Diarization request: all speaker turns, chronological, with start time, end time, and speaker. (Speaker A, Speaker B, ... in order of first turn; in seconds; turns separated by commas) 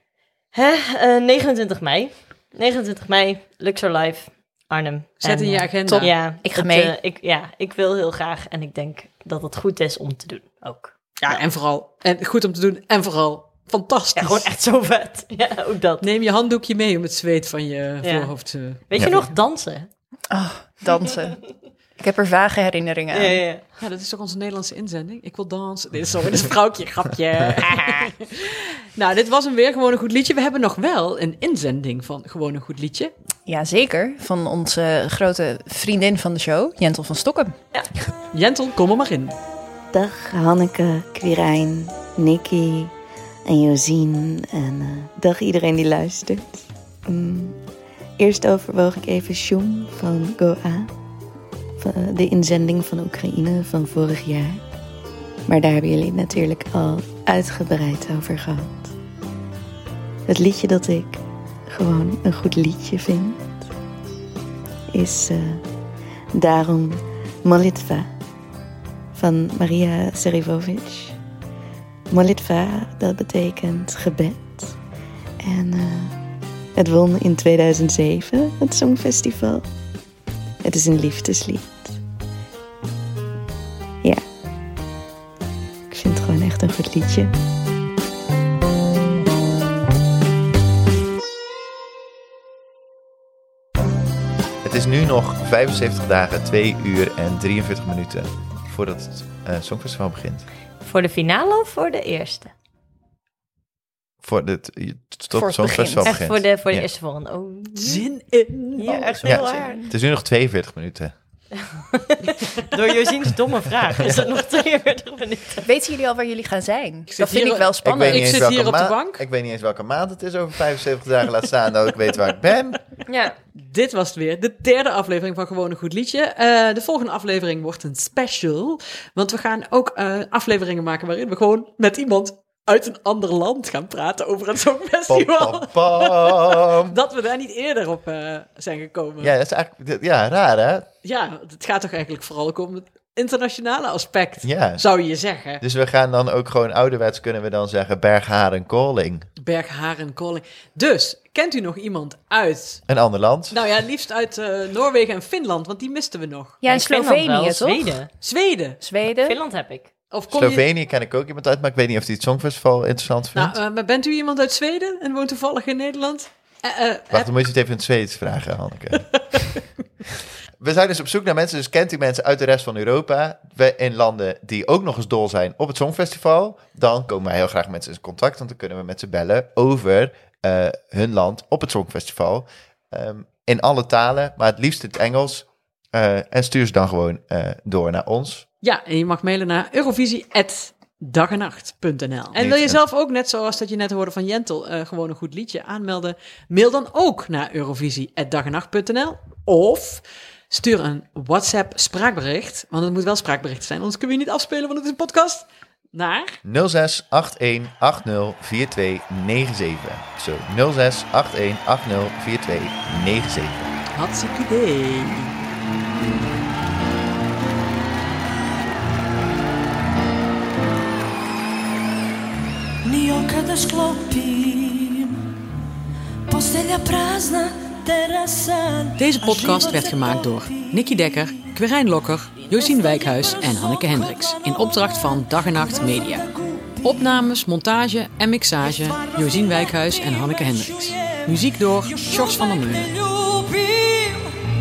Speaker A: 0.5-11.4, Speaker B: 5.2-6.3, Speaker C: 5.8-6.9, Speaker B: 11.2-14.5, Speaker A: 14.1-16.1, Speaker B: 16.0-18.8, Speaker A: 18.0-19.9, Speaker C: 20.3-23.4, Speaker A: 23.1-23.6, Speaker B: 23.8-33.1, Speaker A: 27.6-28.1, Speaker C: 33.5-37.5, Speaker B: 38.3-39.4, Speaker D: 39.9-42.9, Speaker D: 43.5-47.6, Speaker D: 48.2-50.9, Speaker D: 51.8-54.6, Speaker D: 55.5-58.9, Speaker D: 60.3-63.4, Speaker D: 64.9-65.6, Speaker D: 66.3-68.1, Speaker D: 69.1-71.2, Speaker D: 72.1-74.7, Speaker D: 75.4-76.2, Speaker D: 76.8-79.7, Speaker D: 80.6-82.0, Speaker D: 85.9-87.3, Speaker E: 94.6-100.5, Speaker A: 100.8-102.5, Speaker E: 104.2-106.9, Speaker C: 105.3-106.1, Speaker A: 106.0-108.0, Speaker B: 107.7-109.6, Speaker A: 108.8-109.8, Speaker E: 109.2-111.1, Speaker C: 109.4-109.9, Speaker A: 111.7-115.7, Speaker C: 115.6-118.4, Speaker B: 117.1-119.2, Speaker E: 117.8-122.8, Speaker A: 123.1-123.3, Speaker B: 123.5-139.3, Speaker E: 135.1-136.9, Speaker E: 139.2-140.9, Speaker B: 141.0-145.6, Speaker E: 144.4-144.8, Speaker E: 145.6-149.3, Speaker B: 149.4-152.8, Speaker E: 152.9-153.6, Speaker B: 153.5-156.6, Speaker C: 156.6-158.0, Speaker A: 156.7-158.1, Speaker B: 158.2-158.8, Speaker C: 158.8-159.4, Speaker A: 159.2-159.9, Speaker B: 160.1-160.6, Speaker E: 160.3-163.6, Speaker B: 163.3-167.3, Speaker E: 167.1-169.3, Speaker B: 169.1-169.6, Speaker E: 170.6-188.4, Speaker B: 188.6-206.4, Speaker E: 192.3-192.8, Speaker E: 206.4-213.7, Speaker B: 213.9-215.3, Speaker F: 222.8-225.2, Speaker F: 226.3-231.6, Speaker B: 229.0-236.2, Speaker F: 232.3-237.3, Speaker B: 236.8-242.9, Speaker F: 238.5-244.3